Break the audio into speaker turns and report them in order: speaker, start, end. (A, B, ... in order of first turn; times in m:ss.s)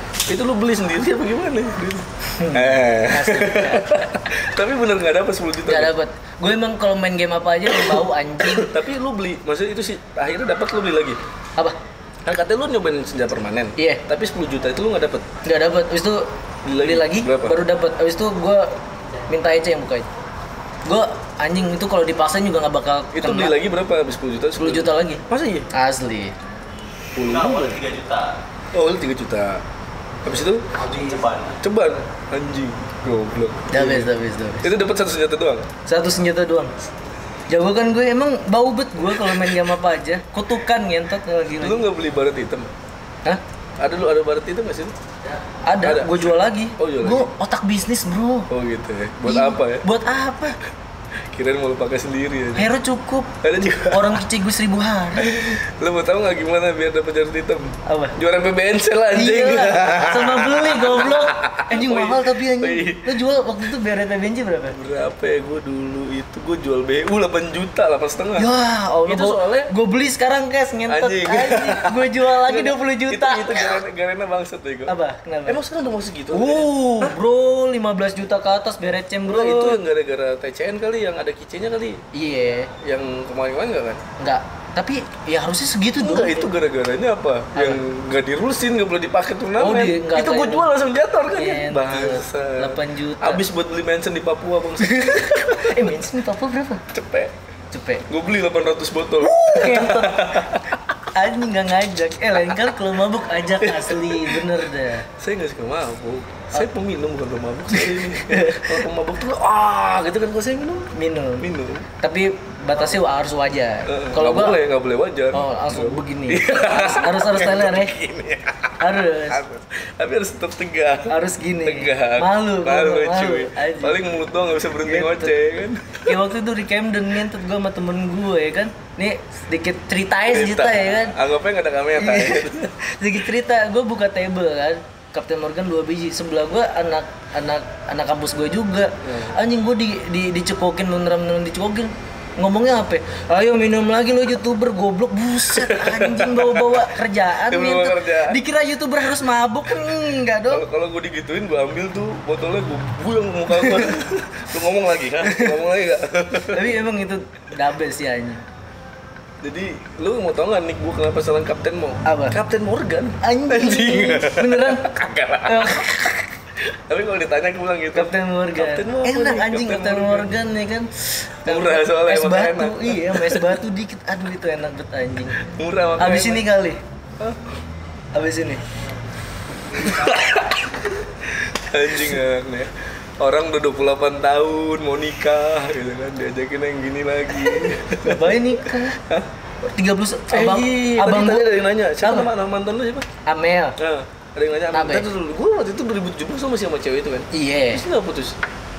0:00.3-0:05.9 A
0:02.4-0:04.1 B
0:05.7-0:08.7 B
0:07.8-0:11.2 A
0:12.2-0:15.3 A
0:13.8-0:14.0 B
0:15.4-0:16.3 B
0:16.6-0:17.6 A
0:16.8-0:18.7 B
0:19.3-0:20.1 B
0:20.8-0:23.6 B
0:23.1-0:25.7 A
0:24.6-0:26.3 B
0:27.2-0:27.8 A
0:27.2-0:28.3 C
0:28.7-0:29.6 A
0:30.2-0:30.7 A
0:30.8-0:31.6 C
0:31.6-0:35.7 A
0:33.7-0:34.7 B
0:35.9-0:36.7 B
0:37.5-0:41.9 B
0:39.1-0:39.7 A
0:41.6-0:42.7 A
0:43.8-0:44.9 A
0:45.6-0:48.5 B
0:45.8-0:47.3 A
0:48.5-0:49.8 A
0:49.2-0:50.6 B
0:51.3-0:52.7 A
0:52.6-0:55.3 B
0:53.4-0:54.2 A
0:55.2-1:03.2 A
0:57.9-0:58.2 B
0:59.1-1:04.8 B
1:04.7-1:08.5 A
1:08.4-1:13.8 B
1:09.0-1:09.7 A
1:10.9-1:15.0 A
1:14.9-1:15.6 B
1:15.5-1:17.2 A
1:16.3-1:19.8 B
1:19.3-1:22.0 A
1:22.1-1:22.7 B
1:22.8-1:24.0 A
1:24.2-1:26.5 B
1:26.0-1:35.9 A
1:27.5-1:27.8 B
1:29.6-1:30.7 B
1:31.4-1:33.4 B
1:34.8-1:36.8 B
1:36.9-1:37.3 A
1:37.7-1:38.0 B
1:38.1-1:40.8 A
1:39.2-1:40.5 B
1:41.2-1:45.1 B
1:43.6-1:44.6 A
1:45.1-1:51.9 A
1:47.7-1:48.8 B
1:50.9-1:54.6 B
1:53.9-2:06.2 A
1:55.3-1:58.0 B
1:58.8-1:59.4 B
2:01.1-2:04.0 B
2:04.8-2:05.3 B
2:06.0-2:11.2 B
2:10.3-2:12.8 A
2:12.0-2:30.6 B
2:19.0-2:19.3 A
2:25.5-2:28.4 A
2:30.5-2:36.8 A
2:33.6-2:33.9 B
2:35.2-2:35.6 B
2:36.5-2:38.4 B
2:39.4-2:45.9 A
2:42.0-2:42.4 B
2:43.2-2:44.9 B
2:45.4-2:46.2 B
2:46.6-2:50.3 A
2:47.9-2:55.4 B
2:51.4-2:53.6 A
2:55.4-2:56.5 A
2:56.0-2:56.8 B
2:57.2-2:57.6 A
2:58.1-2:58.6 B
2:59.8-3:09.3 A
3:08.0-3:09.0 B
3:09.6-3:12.3 B
3:10.3-3:13.1 A
3:13.2-3:13.8 B
3:13.8-3:18.4 A
3:14.7-3:15.1 B
3:17.3-3:17.8 B